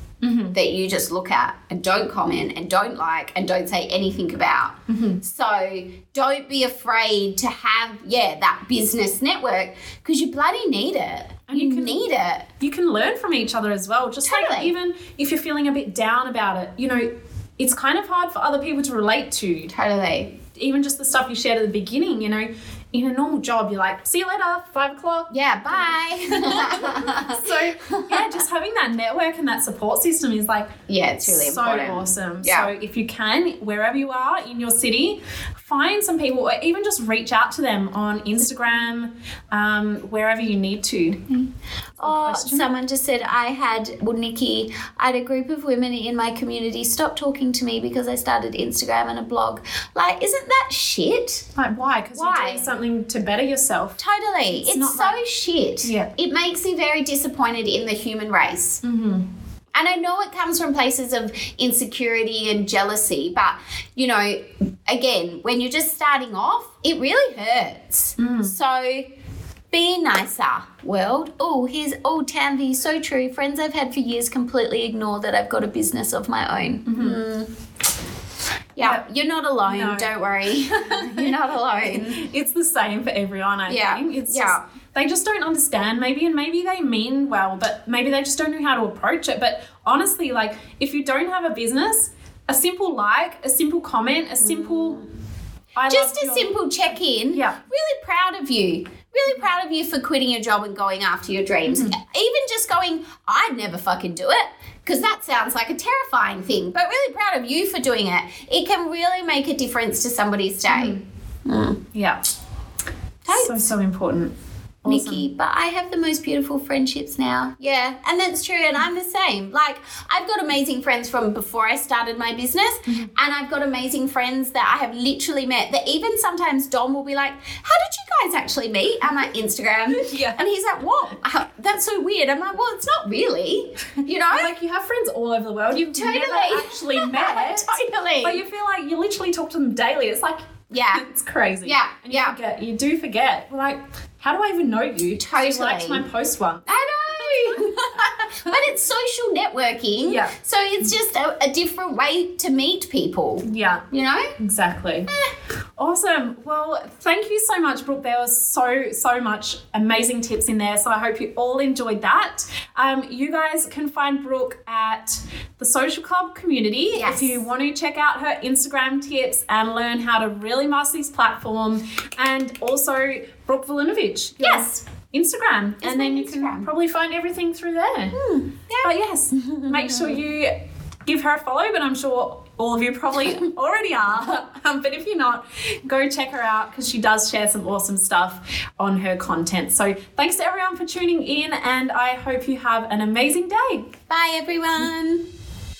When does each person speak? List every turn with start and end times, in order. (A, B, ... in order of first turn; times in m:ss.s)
0:00.2-0:00.6 A
0:00.5-0:12.5 B
0:04.9-0:05.2 A
0:11.5-0:12.1 A
0:12.6-0:19.7 A
0:14.2-0:14.7 B
0:19.7-0:20.4 B
0:20.5-0:41.4 A
0:25.3-0:28.4 B
0:30.9-0:32.7 B
0:42.0-0:42.7 A
0:42.0-0:51.5 B
0:51.6-0:54.0 A
0:52.1-0:52.7 B
0:54.0-0:58.8 B
0:54.5-0:55.2 A
0:55.8-0:56.1 A
0:58.8-0:59.3 A
0:59.8-1:09.1 B
1:08.2-1:08.6 A
1:09.7-1:17.5 B
1:16.9-1:17.2 A
1:18.8-1:22.2 B
1:19.7-1:20.1 A
1:20.7-1:21.3 A
1:21.9-1:35.0 A
1:23.7-1:24.6 B
1:34.4-1:35.1 B
1:35.8-1:36.7 A
1:35.9-1:51.8 B
1:37.3-1:37.6 A
1:41.7-1:42.0 A
1:50.7-1:51.0 A
1:51.9-1:52.2 A
1:53.3-1:53.7 B
1:53.3-1:54.3 A
1:54.8-1:55.2 A
1:54.9-2:14.5 B
2:09.9-2:10.4 A
2:14.3-2:27.7 A
2:15.7-2:18.4 B
2:20.7-2:21.0 B
2:21.6-2:22.4 B
2:25.2-2:26.0 B
2:26.7-2:34.4 B
2:30.0-2:30.4 A
2:33.4-2:33.9 A
2:34.4-2:35.1 A
2:35.8-2:58.2 A
2:46.9-2:47.4 B
2:54.4-2:54.7 B
2:55.8-2:56.7 B
2:58.1-3:00.2 B
2:58.8-3:00.6 A
3:01.1-3:13.9 A
3:14.1-3:15.2 B